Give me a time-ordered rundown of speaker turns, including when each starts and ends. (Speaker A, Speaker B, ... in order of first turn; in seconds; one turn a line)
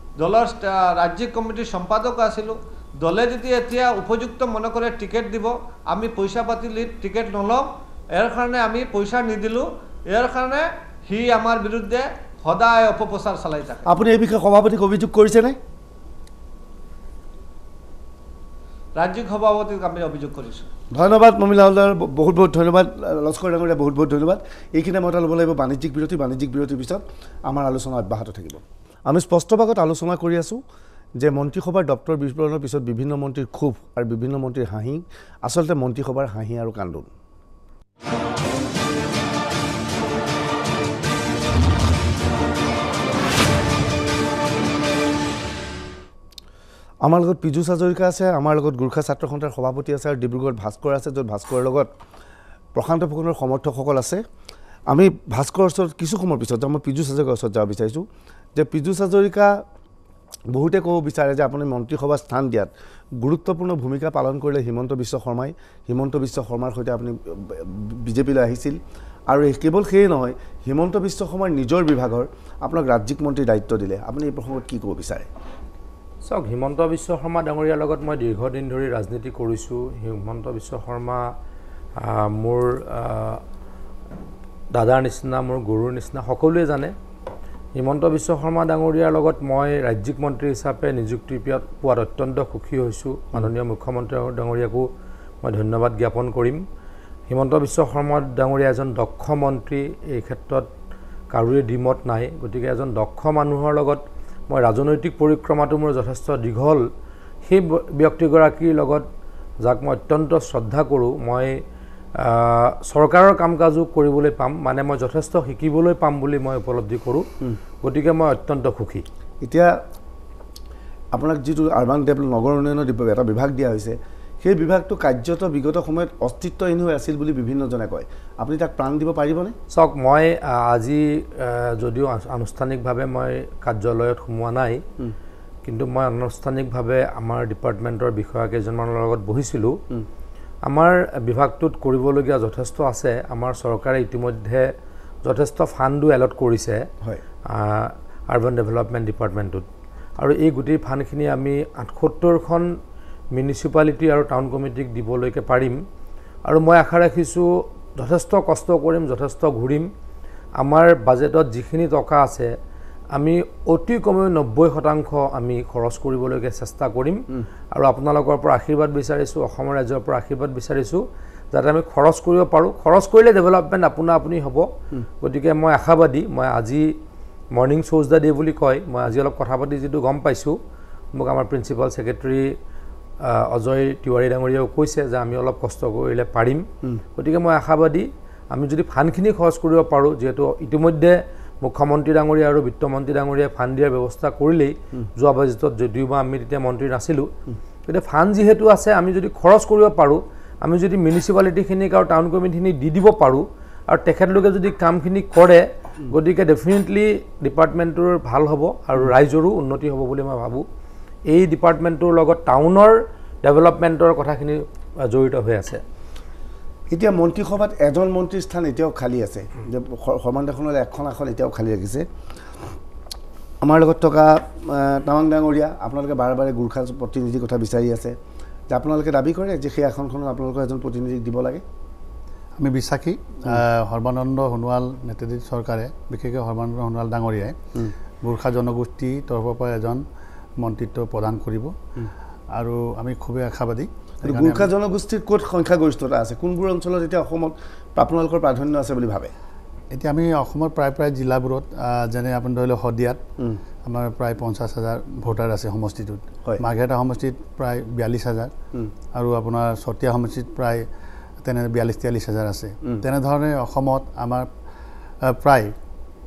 Speaker A: 0.2-13.9
Speaker B: 13.9-15.6
Speaker A: 19.0-20.7
Speaker B: 20.9-30.6
Speaker B: 31.2-37.1
Speaker B: 47.0-51.9
Speaker B: 52.8-54.2
Speaker B: 54.9-58.0
Speaker B: 58.6-59.5
Speaker B: 60.5-68.8
Speaker B: 69.3-75.3
Speaker C: 76.2-81.3
Speaker C: 82.0-83.4
Speaker C: 84.7-86.9
Speaker C: 87.8-94.8
Speaker C: 95.4-96.6
Speaker C: 97.3-100.7
Speaker C: 101.3-106.8
Speaker C: 107.5-109.1
Speaker C: 109.6-111.5
Speaker C: 112.2-117.2
Speaker C: 117.8-119.0
Speaker B: 119.4-119.7
Speaker B: 121.1-129.6
Speaker C: 129.7-134.8
Speaker C: 135.7-139.7
Speaker C: 140.7-144.7
Speaker C: 145.2-146.8
Speaker C: 147.5-149.7
Speaker C: 150.2-152.7
Speaker C: 153.3-155.8
Speaker C: 156.4-159.9
Speaker C: 160.6-162.5
Speaker C: 163.2-174.7
Speaker C: 175.2-176.9
Speaker C: 177.5-180.6
Speaker C: 181.2-182.5
Speaker C: 183.3-186.7
Speaker C: 187.2-197.3
Speaker C: 197.9-210.7
Speaker C: 211.3-215.8
Speaker B: 216.9-222.1
Speaker B: 223.6-228.2
Speaker B: 228.7-231.6
Speaker D: 232.6-237.6
Speaker D: 238.2-240.0
Speaker D: 240.6-241.8
Speaker D: 242.6-244.7
Speaker B: 244.2-249.3
Speaker D: 249.9-253.2
Speaker D: 253.8-258.5
Speaker D: 259.1-260.9
Speaker D: 261.4-264.5
Speaker D: 265.2-265.7